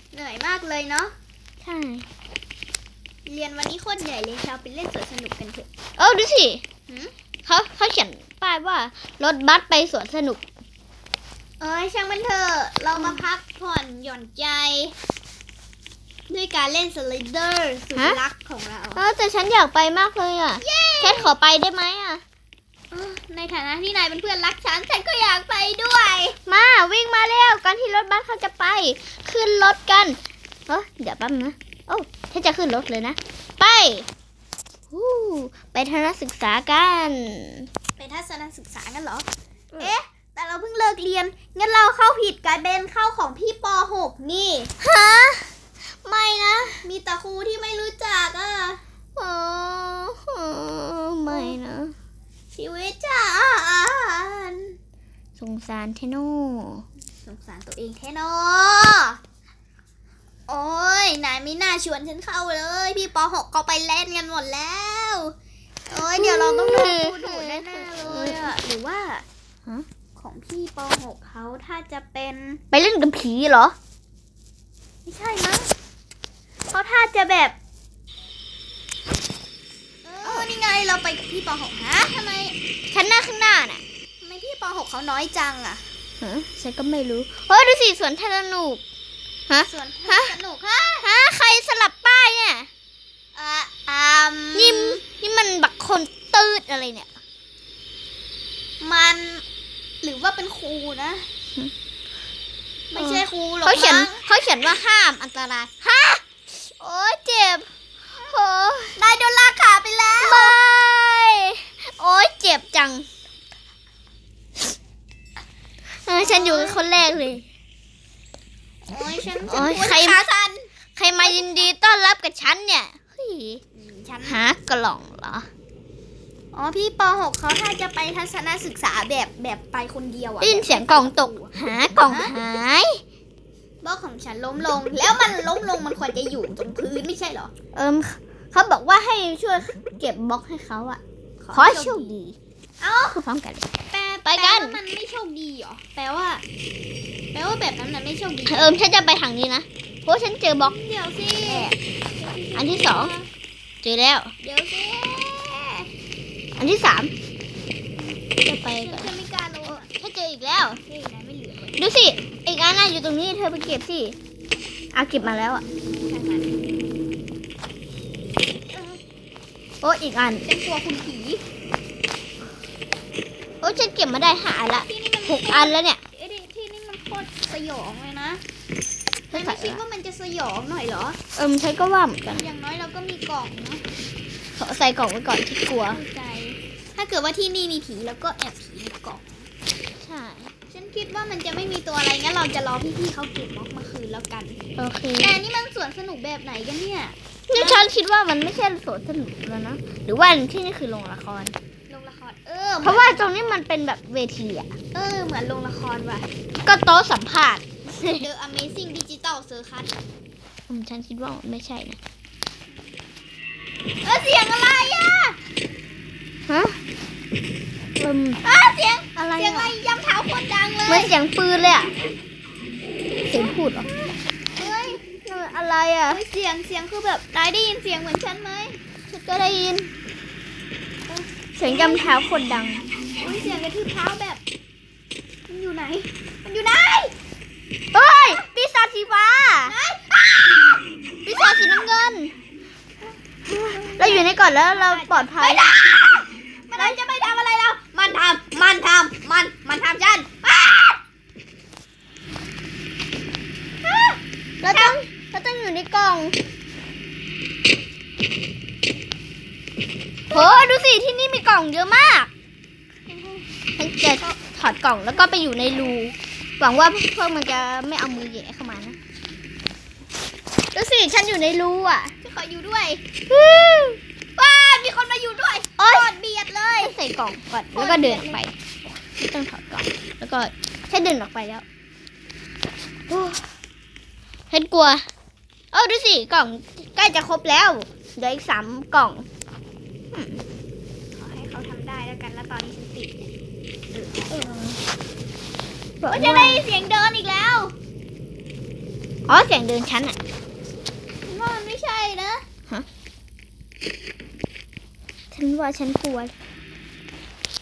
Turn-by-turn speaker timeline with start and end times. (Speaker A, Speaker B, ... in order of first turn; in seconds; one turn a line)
Speaker A: 0.1-1.1
Speaker B: 1.6-2.1
Speaker A: 3.3-5.7
Speaker B: 6.0-6.6
Speaker B: 7.5-10.4
Speaker A: 11.6-14.9
Speaker B: 13.0-13.2
Speaker A: 16.3-19.0
Speaker B: 19.0-22.2
Speaker A: 20.6-21.3
Speaker A: 22.9-26.4
Speaker B: 26.5-34.1
Speaker B: 34.9-37.7
Speaker A: 38.0-39.3
Speaker A: 39.8-44.7
Speaker B: 44.8-45.5
Speaker B: 46.0-46.8
Speaker A: 46.8-48.8
Speaker B: 49.2-51.9
Speaker A: 51.3-51.6
Speaker A: 52.5-54.8
Speaker B: 55.4-56.8
Speaker A: 57.2-59.2
Speaker A: 60.5-65.3
Speaker A: 65.9-69.2
Speaker B: 66.2-68.5
Speaker A: 70.2-72.6
Speaker B: 72.7-73.8
Speaker A: 75.0-75.7
Speaker A: 76.7-77.5
Speaker A: 80.0-82.6
Speaker B: 80.2-80.5
Speaker B: 82.9-83.8
Speaker A: 84.2-85.8
Speaker B: 86.2-88.8
Speaker B: 89.5-90.3
Speaker A: 89.7-91.1
Speaker B: 91.0-92.7
Speaker A: 93.3-95.0
Speaker B: 94.5-97.2
Speaker A: 98.8-99.4
Speaker A: 100.0-101.3
Speaker A: 102.9-104.3
Speaker B: 103.0-107.7
Speaker B: 108.2-109.0
Speaker A: 109.0-110.6
Speaker B: 110.2-113.1
Speaker B: 116.1-117.5
Speaker A: 116.2-116.8
Speaker A: 118.9-121.7
Speaker B: 119.5-120.2
Speaker B: 121.0-123.6
Speaker A: 123.7-124.4
Speaker B: 124.2-125.5
Speaker A: 126.5-131.5
Speaker B: 130.4-133.0
Speaker A: 132.1-132.3
Speaker A: 133.8-137.5
Speaker B: 137.7-141.0
Speaker A: 141.4-142.2
Speaker B: 141.5-142.4
Speaker A: 142.8-143.2
Speaker B: 143.1-143.7
Speaker A: 143.9-146.4
Speaker B: 144.3-144.8
Speaker A: 147.3-148.8
Speaker B: 148.5-150.8
Speaker A: 150.6-153.3
Speaker B: 151.4-151.8
Speaker B: 152.5-153.1
Speaker B: 153.8-154.3
Speaker A: 154.4-155.9
Speaker B: 156.6-157.1
Speaker B: 158.4-159.1
Speaker A: 158.8-159.9
Speaker B: 159.6-160.8
Speaker A: 160.8-161.9
Speaker B: 161.8-164.2
Speaker B: 164.9-165.6
Speaker A: 165.9-166.6
Speaker A: 168.7-169.0
Speaker B: 169.8-170.4
Speaker A: 170.4-171.4
Speaker B: 173.6-176.0
Speaker A: 174.8-178.4
Speaker B: 179.3-179.8
Speaker A: 179.3-181.2
Speaker B: 181.3-182.4
Speaker A: 182.3-183.8
Speaker B: 184.6-186.0
Speaker A: 185.8-189.5
Speaker B: 190.0-190.5
Speaker A: 190.7-194.6
Speaker B: 194.8-195.3
Speaker A: 195.2-197.9
Speaker B: 197.5-201.6
Speaker A: 201.9-203.3
Speaker B: 202.8-204.7
Speaker A: 204.9-206.3
Speaker B: 206.6-208.3
Speaker A: 208.2-209.9
Speaker B: 210.7-212.0
Speaker A: 214.0-215.4
Speaker B: 216.5-216.8
Speaker B: 218.0-218.4
Speaker A: 218.4-221.1
Speaker B: 219.2-219.7
Speaker B: 220.9-221.9
Speaker B: 223.3-223.9
Speaker A: 223.9-225.0
Speaker B: 225.1-226.2
Speaker A: 226.1-228.8
Speaker B: 229.1-229.9
Speaker A: 231.1-232.1
Speaker B: 231.6-232.8
Speaker A: 233.2-234.4
Speaker A: 235.5-237.1
Speaker B: 237.9-239.8
Speaker A: 239.7-240.7
Speaker B: 241.2-242.3
Speaker A: 243.5-251.0
Speaker B: 244.0-245.7
Speaker A: 253.8-255.0
Speaker B: 254.6-256.4
Speaker B: 260.3-262.3
Speaker A: 263.1-263.5
Speaker B: 263.8-269.0
Speaker B: 270.7-272.1
Speaker A: 272.2-273.0
Speaker B: 273.3-274.0
Speaker A: 274.4-276.9
Speaker B: 276.8-278.5
Speaker A: 277.7-278.4
Speaker B: 279.1-281.6
Speaker B: 283.1-283.4
Speaker B: 284.5-285.1
Speaker B: 285.7-289.3
Speaker B: 290.1-290.4
Speaker A: 291.1-293.3
Speaker A: 293.9-294.6
Speaker B: 294.3-294.8
Speaker B: 296.0-296.6
Speaker A: 296.1-297.7
Speaker B: 299.3-300.2
Speaker A: 301.2-302.4
Speaker B: 305.3-306.3